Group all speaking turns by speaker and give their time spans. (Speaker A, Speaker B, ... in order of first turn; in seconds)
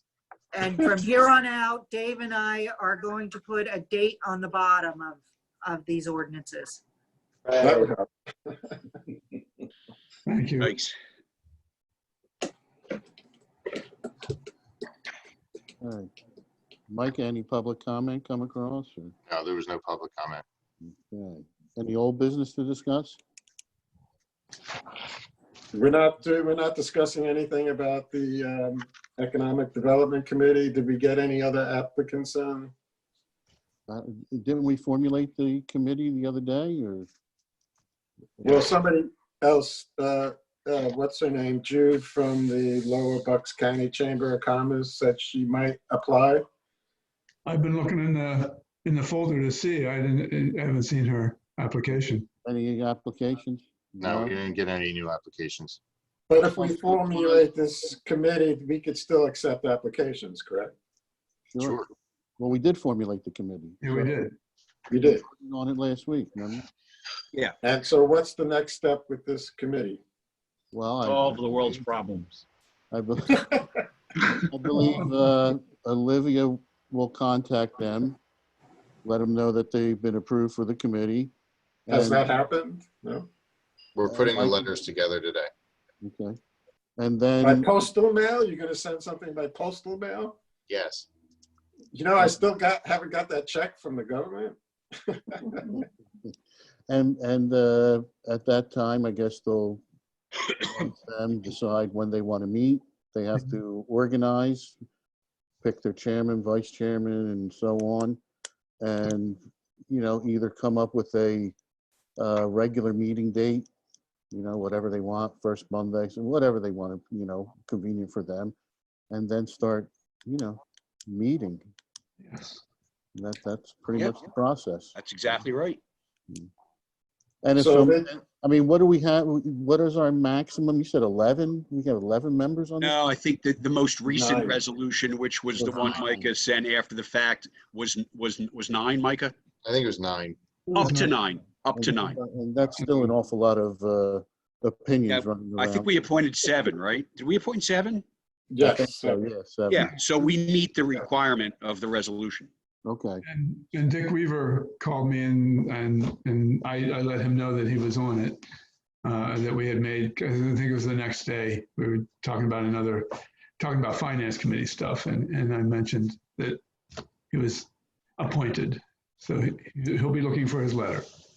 Speaker A: 0.5-6.8
Speaker B: 7.6-8.8, 25.7-32.7, 38.4-46.4, 56.3-60.7, 64.9-65.2, 67.6-70.0, 81.9-83.3, 87.4-90.3, 91.9-95.8, 127.5-128.1, 134.1-134.6, 148.5-149.2
Speaker C: 10.2-10.7, 47.4-52.3, 63.8-64.3, 122.3-122.6, 140.7-141.2, 142.8-143.1, 153.2-158.4, 159.0-163.1, 163.6-166.6, 167.3-171.1
Speaker D: 10.6-10.9, 71.1-72.2, 124.9-125.8, 132.8-139.3, 140.7-142.2, 145.1-148.0, 149.7-152.5
Speaker E: 15.8-16.1, 16.9-19.1, 20.8-23.2, 33.9-37.1, 38.4-38.7, 52.4-54.3, 56.5-57.4, 61.5-61.8, 62.4-64.2, 65.0-66.6, 70.7-71.8, 72.9-73.6, 74.2-78.2, 79.0-81.3, 81.9-82.2, 84.0-84.6, 86.0-86.4, 87.0-87.7, 96.9-99.8, 100.6-104.8, 105.6-108.2, 108.8-111.5, 112.2-113.7, 114.3-118.5, 119.1-121.6, 123.1-124.9, 127.4-132.9, 135.6-136.3, 141.8-145.9, 148.6-149.9, 152.8-153.2
Speaker F: 19.3-20.4, 54.0-55.8, 61.6-61.9, 83.9-85.5, 90.7-91.1, 139.6-140.4